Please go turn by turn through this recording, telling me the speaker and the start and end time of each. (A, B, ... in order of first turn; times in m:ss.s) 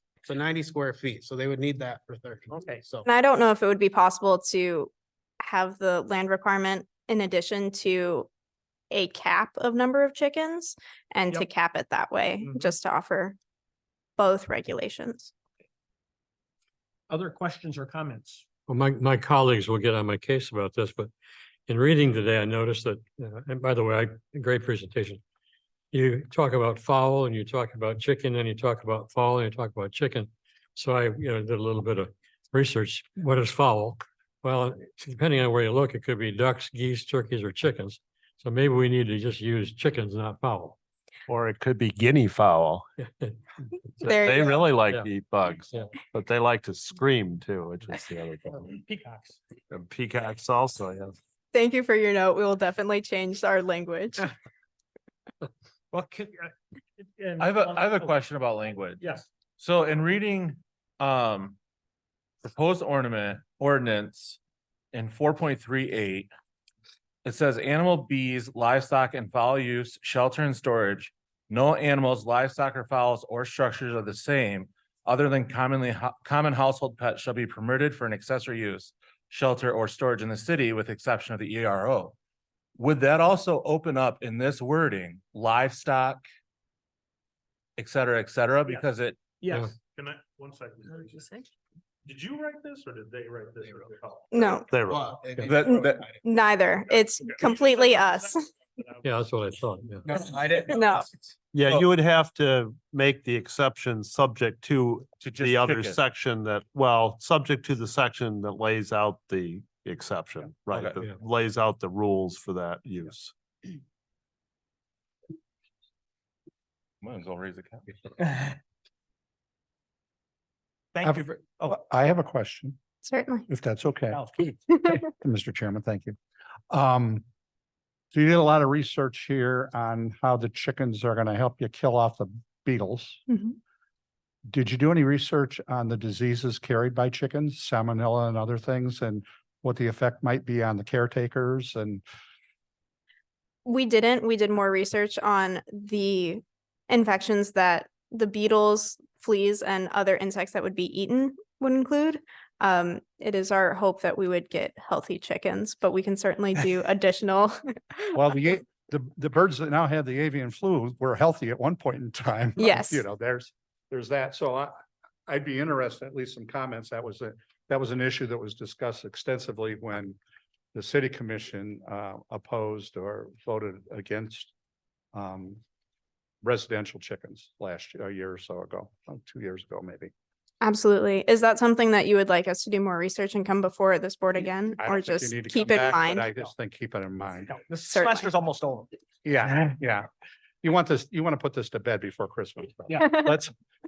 0:00.2-0:03.1 A
0:02.5-0:02.8 B
0:03.0-0:08.3 C
0:08.9-0:13.4 C
0:12.4-0:12.7 B
0:14.2-0:15.3 C
0:17.1-0:18.4 B
0:18.7-0:21.1 D
0:21.7-0:25.2 D
0:25.9-0:40.8 D
0:41.3-0:42.9 E
0:43.0-0:43.4 D
0:43.9-0:44.2 D
0:44.0-0:44.6 C
0:44.2-0:48.7 E
0:44.8-0:45.9 D
0:48.5-0:49.4 B
0:49.7-0:51.2 E
0:51.5-0:54.3 C
0:55.9-0:58.2 B
0:57.4-0:59.0 F
0:59.0-0:59.3 B
0:59.6-1:01.6 F
1:02.4-1:04.4 F
1:04.9-1:06.3 F
1:07.2-1:22.2 F
1:22.8-1:26.2 F
1:27.8-1:29.2 F
1:29.4-1:29.7 B
1:29.8-1:31.5 G
1:32.0-1:34.6 G
1:34.3-1:34.7 C
1:34.7-1:35.2 E
1:34.9-1:36.1 A
1:35.4-1:36.0 F
1:35.5-1:38.4 C
1:37.4-1:39.0 G
1:39.0-1:40.1 D
1:40.1-1:40.8 A
1:40.6-1:41.1 C
1:41.5-1:53.3 E
1:45.2-1:46.0 F
1:50.7-1:51.0 F
1:57.0-1:58.0 F
2:00.9-2:01.8 B
2:01.0-2:02.8 H
2:03.0-2:03.5 C
2:03.5-2:04.2 H
2:04.1-2:04.4 B
2:04.8-2:06.2 H
2:06.7-2:07.2 H
2:08.1-2:13.2 H
2:13.3-2:13.6 C
2:14.5-2:22.0 H
2:23.6-2:38.2 C
2:38.1-2:44.8 H
2:42.6-2:43.0 C
2:45.3-2:50.2 H
2:50.7-2:54.5 H
2:55.1-2:55.6 H
2:56.4-3:00.1 H
3:00.6-3:06.3 C
3:04.8-3:07.6 H
3:07.5-3:09.5 B
3:07.8-3:08.3 C
3:09.2-3:10.1 H
3:10.6-3:13.5 H
3:13.0-3:13.2 C